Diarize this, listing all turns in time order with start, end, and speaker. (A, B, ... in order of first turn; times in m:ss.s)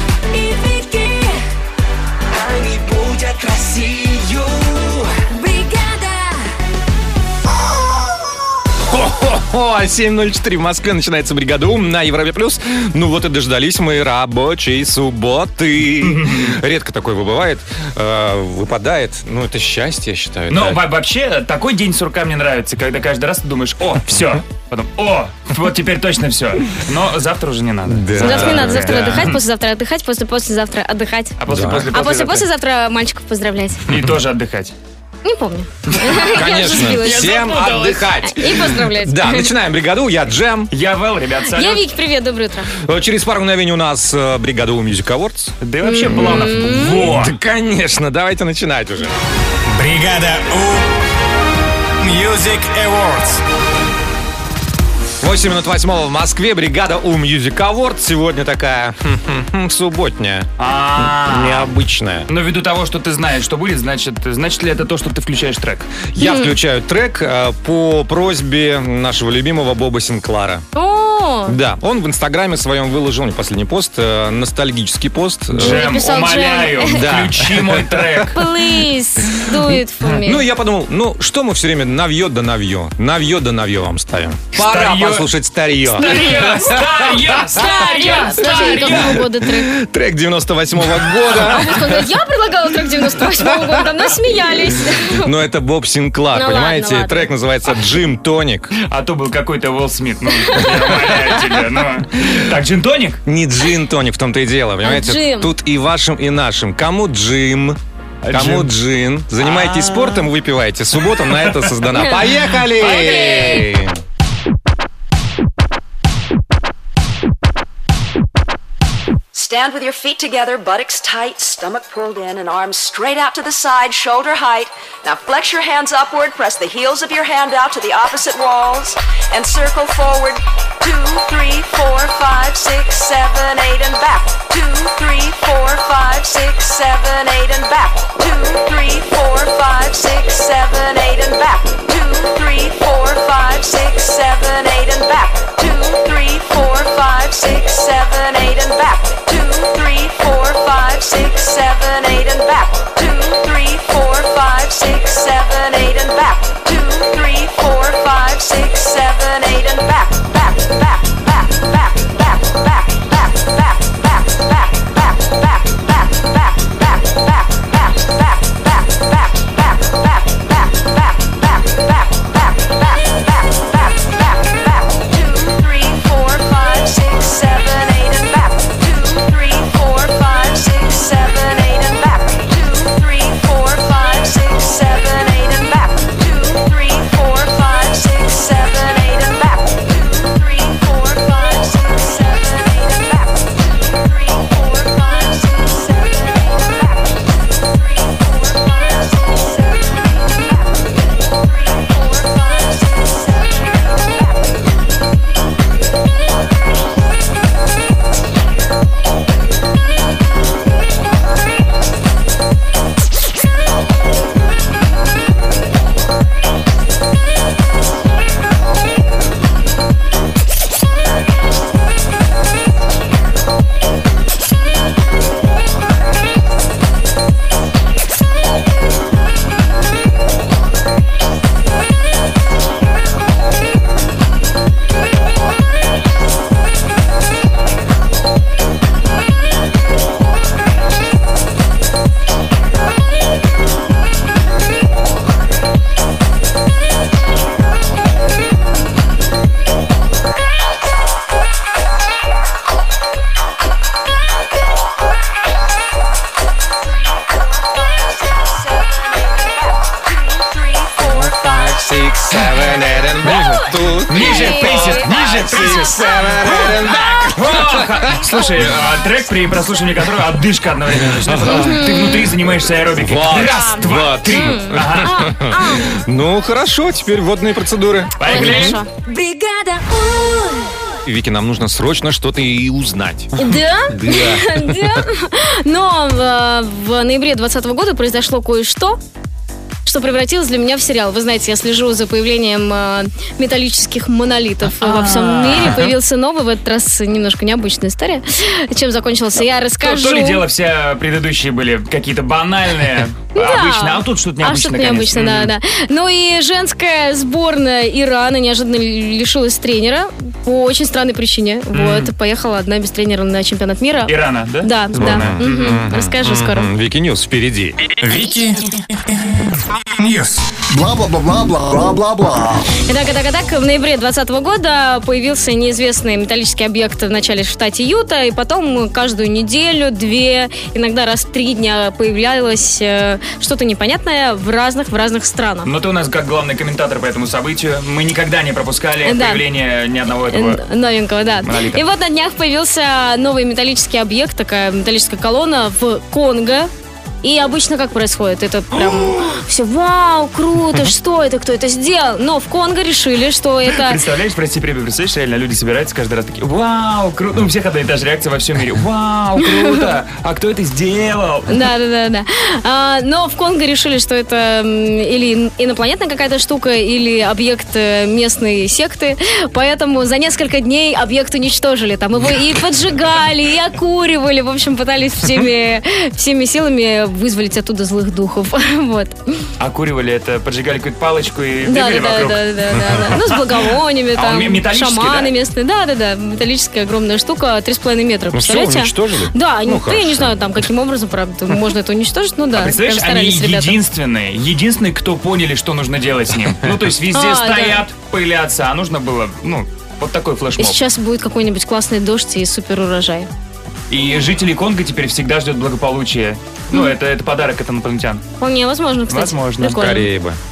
0:02.6-0:04.0 A
0:08.8-0:20.8 B
0:16.0-0:16.6 C
0:20.5-0:29.4 C
0:27.9-0:29.4 B
0:28.2-0:31.4 D
0:31.4-0:32.5 C
0:31.5-0:31.9 B
0:31.9-0:33.8 D
0:33.9-0:34.7 C
0:35.2-0:39.5 D
0:36.1-0:38.1 C
0:36.2-0:40.7 B
0:40.7-0:41.9 C
0:41.5-0:42.7 D
0:42.8-0:45.5 B
0:45.6-0:47.4 C
0:45.8-0:47.1 D
0:46.4-0:49.1 B
0:49.7-0:50.9 E
0:52.0-0:53.4 E
0:55.2-1:02.3 B
1:00.6-1:01.7 C
1:02.3-1:06.1 C
1:06.2-1:10.6 B
1:06.2-1:06.6 D
1:10.8-1:11.6 D
1:11.5-1:15.9 B
1:15.5-1:18.4 C
1:15.6-1:17.0 D
1:16.9-1:18.2 B
1:18.3-1:20.4 D
1:20.2-1:27.3 B
1:24.6-1:25.3 C
1:26.0-1:29.2 C
1:26.0-1:26.6 D
1:27.5-1:29.7 D
1:28.1-1:32.0 B
1:31.4-1:35.3 D
1:33.4-1:33.8 B
1:35.2-1:38.7 B
1:36.3-1:37.3 D
1:38.8-1:43.2 C
1:40.6-1:41.2 B
1:43.3-1:47.8 B
1:44.8-1:45.5 D
1:48.2-1:48.7 C
1:48.3-1:54.0 B
1:49.4-1:50.3 C
1:51.1-1:51.7 C
1:51.9-1:53.7 D
1:59.3-3:24.7 A
4:16.8-4:21.5 A
4:21.0-4:28.6 B
4:23.2-4:27.0 D
4:24.1-4:35.3 C
4:31.2-4:31.7 B
4:31.5-4:32.2 D
4:32.9-4:38.8 B
4:33.4-4:36.0 D
4:38.2-4:38.8 C
4:38.3-4:40.6 D
4:41.1-4:45.0 B
4:43.4-4:49.0 D
4:49.9-5:00.4 D
4:54.8-4:55.9 C
4:59.8-5:05.5 C
5:03.4-5:16.7 D
5:11.7-5:12.1 C
5:14.1-5:15.4 C
5:15.0-5:17.8 B
5:18.0-5:20.5 E
5:20.7-5:22.7 F
5:22.8-5:35.7 D
5:35.6-5:40.6 C
5:39.1-5:39.4 D
5:40.3-5:46.7 D
5:41.4-5:41.8 C
5:47.2-5:54.0 D
5:53.7-6:01.7 C
5:59.6-5:59.9 D
6:01.5-6:19.2 D
6:19.6-6:23.3 C
6:21.7-6:33.8 D
6:24.2-6:25.3 C
6:28.3-6:30.4 B
6:32.6-6:40.8 C
6:37.1-6:37.8 D
6:40.6-6:43.3 D
6:43.9-6:48.2 C
6:48.4-6:50.1 D
6:49.1-6:49.8 C
6:49.7-6:50.4 B